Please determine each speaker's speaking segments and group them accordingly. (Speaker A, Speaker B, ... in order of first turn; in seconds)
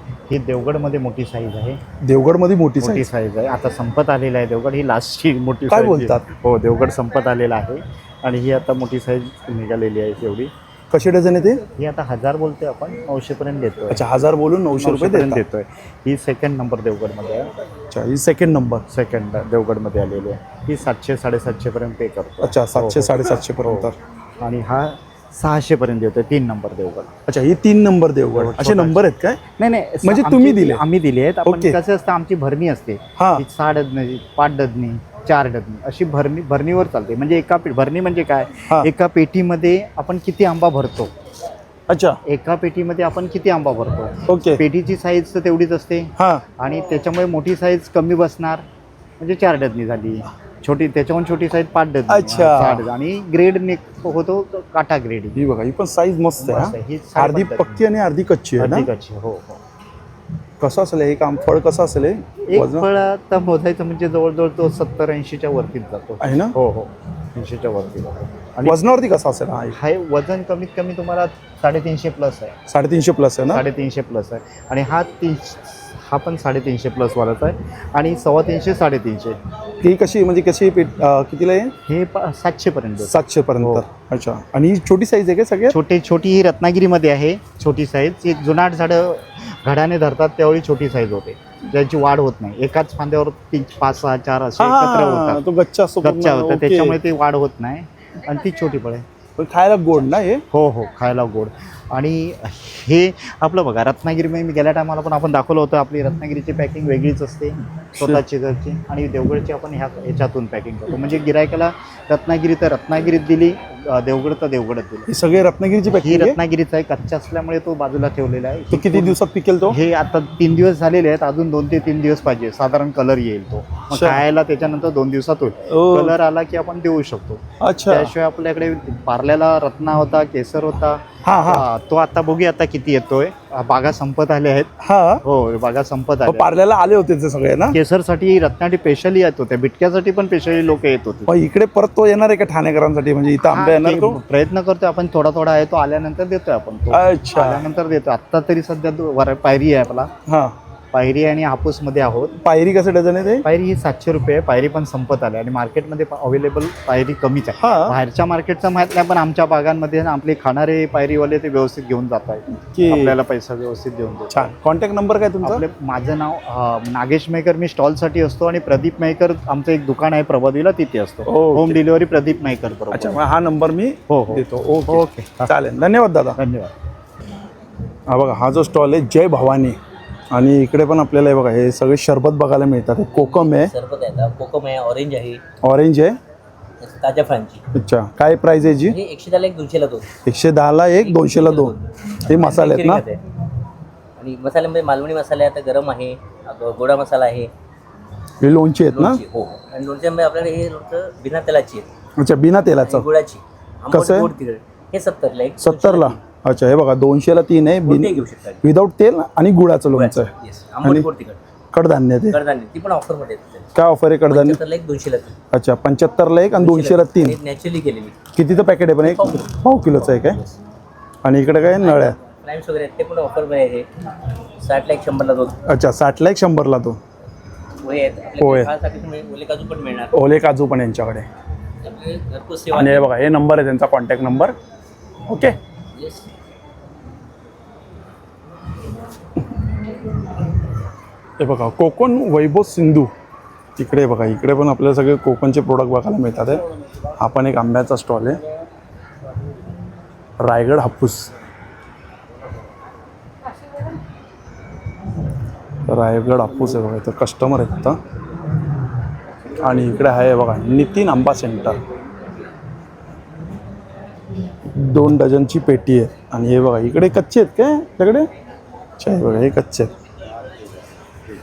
Speaker A: 0.3-1.8, 2.8-10.5, 11.8-14.0, 14.8-17.5, 18.9-27.1, 28.4-41.1, 42.2-48.6, 49.2-55.4, 56.4-57.8, 58.6-59.6, 62.5-68.8, 69.7-72.6, 73.5-79.4, 81.9-83.8, 85.7-95.4, 96.0-99.0, 100.5-115.1, 115.9-134.7, 135.2-136.5, 137.7-141.3, 143.4-150.1, 150.9-152.3, 153.4-164.5, 165.4-173.2, 174.1-175.5, 176.4-176.7
Speaker B: 2.0-3.1, 5.7-6.2, 10.9-11.6, 13.9-15.4, 17.9-18.9, 22.4-24.0, 27.3-29.4, 30.0-30.8, 31.4-31.8, 33.2-33.4, 41.9-42.2, 44.3-44.6, 46.2-46.4, 52.1-52.9, 55.4-58.9, 60.6-62.9, 66.2-66.6, 68.6-69.8, 72.7-73.6, 79.8-81.7, 83.0-85.8, 94.6-97.0, 99.4-100.4, 108.0-108.2, 115.1-116.4, 118.7-119.8, 123.9-124.2, 125.7-126.2, 127.6-128.1, 131.2-131.7, 134.8-135.2, 136.3-137.8, 141.3-144.2, 146.9-147.7, 150.3-150.6, 152.4-153.5, 157.6-158.0, 162.6-163.2, 164.3-165.7, 171.3-171.8, 172.9-176.4, 178.1-179.8, 180.3-183.7, 185.6-186.2, 187.7-189.0, 190.2-193.1, 198.4-199.2, 202.2-203.1, 203.9-204.3, 205.6-210.3, 211.7-212.4, 213.8-214.6, 215.5-217.4, 218.3-220.4, 221.2-222.2, 225.7-227.0, 228.4-228.7, 230.1-231.3, 232.7-234.6, 235.3-235.6, 241.4-243.1, 243.8-246.6, 247.2-248.4, 250.4-251.3, 255.9-258.0, 259.6-261.8, 264.7-268.3, 269.0-269.9
Speaker C: 183.1-185.4, 186.8-187.6, 188.9-190.1, 191.0-193.2, 194.2-197.5, 198.9-201.9, 202.8-206.2, 207.8-208.6, 209.9-211.4, 212.3-213.7, 214.3-215.4, 216.6-218.2, 219.0-220.5, 221.8-223.9, 224.6-225.6, 227.8-230.1, 231.8-233.1, 235.9-236.3